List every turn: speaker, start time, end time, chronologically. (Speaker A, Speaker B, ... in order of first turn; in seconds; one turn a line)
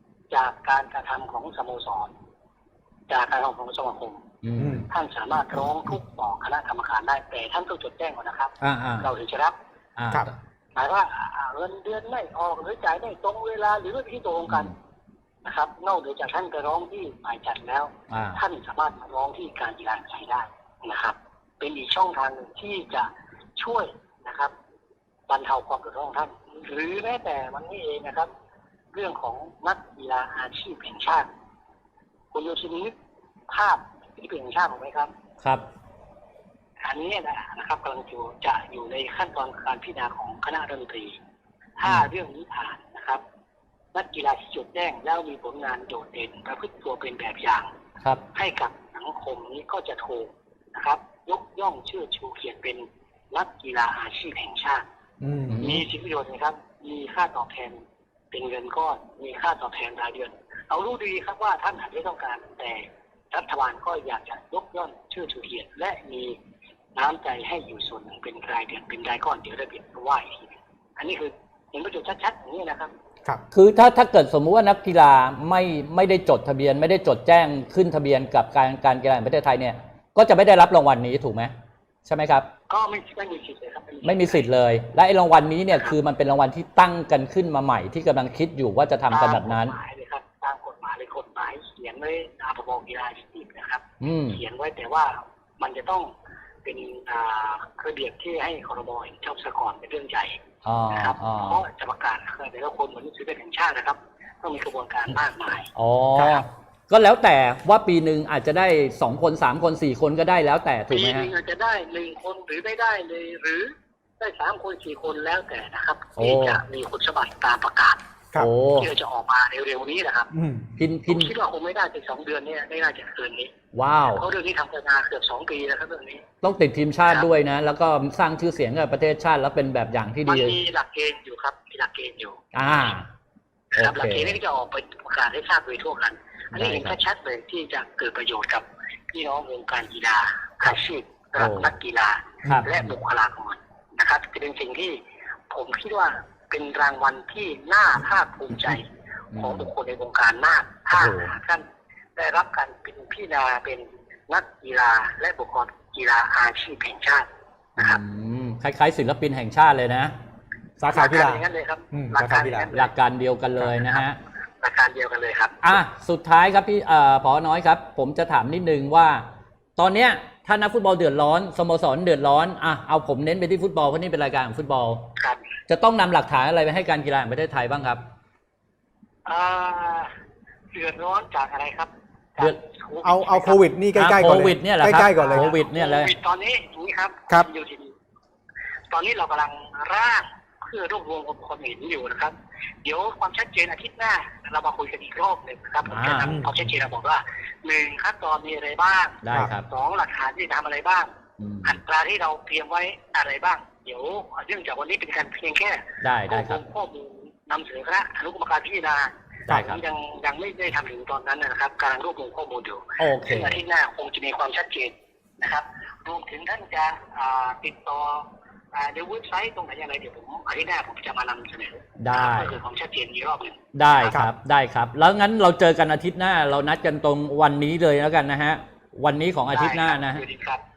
Speaker A: 0.3-2.1
Speaker A: 3.1-4.2
Speaker B: 4.4-4.9
Speaker C: 4.6-4.9
Speaker A: 4.9-9.6
Speaker B: 8.6-9.1
Speaker B: 10.0-10.3
Speaker A: 10.8-14.7
Speaker A: 15.4-24.5
Speaker B: 18.1-18.4
Speaker A: 25.3-28.3
Speaker A: 28.9-31.3
Speaker A: 32.3-33.0
Speaker A: 33.5-35.1
Speaker A: 36.8-41.2
Speaker A: 41.8-43.2
Speaker B: 41.8-42.1
Speaker A: 43.9-47.7
Speaker A: 48.4-54.8
Speaker C: 55.2-55.6
Speaker B: 55.5-55.9
Speaker A: 55.6-66.4
Speaker A: 67.0-72.9
Speaker B: 73.5-81.5
Speaker B: 82.1-82.5
Speaker A: 82.7-84.5
Speaker B: 84.0-89.8
Speaker A: 89.1-96.1
Speaker B: 94.0-94.4
Speaker A: 96.7-100.4
Speaker B: 100.6-101.6
Speaker A: 100.9-106.4
Speaker B: 105.8-111.3
Speaker A: 110.9-118.0
Speaker B: 116.2-116.6
Speaker B: 118.4-118.9
Speaker A: 118.8-120.3
Speaker C: 120.3-120.7
Speaker B: 120.8-121.3
Speaker A: 121.1-123.5
Speaker B: 123.7-124.2
Speaker A: 124.1-126.3
Speaker B: 126.4-130.6
Speaker A: 130.3-132.4
Speaker B: 132.5-133.1
Speaker B: 133.8-134.4
Speaker A: 133.8-145.0
Speaker B: 136.5-137.0
Speaker B: 141.4-141.7
Speaker B: 142.4-142.9
Speaker A: 145.5-151.7
Speaker B: 149.3-149.7
Speaker B: 150.9-151.3
Speaker A: 152.2-158.0
Speaker B: 157.8-160.1
Speaker C: 160.8-162.7
Speaker A: 160.9-162.9
Speaker B: 162.7-164.2
Speaker A: 163.7-164.1
Speaker A: 164.6-165.8
Speaker B: 165.6-169.3
Speaker B: 169.8-175.1
Speaker A: 175.2-175.4
Speaker B: 175.7-178.0
Speaker A: 179.2-180.1
Speaker A: 180.7-183.6
Speaker C: 183.0-185.6
Speaker B: 184.0-186.1
Speaker A: 185.2-187.9
Speaker A: 188.9-201.1
Speaker B: 195.9-196.4
Speaker C: 196.2-196.7
Speaker B: 199.2-199.7
Speaker B: 201.4-201.8
Speaker A: 201.6-224.1
Speaker B: 206.0-206.6
Speaker B: 209.5-209.8
Speaker B: 213.0-213.6
Speaker B: 222.0-222.6
Speaker B: 223.7-230.2
Speaker A: 229.5-230.6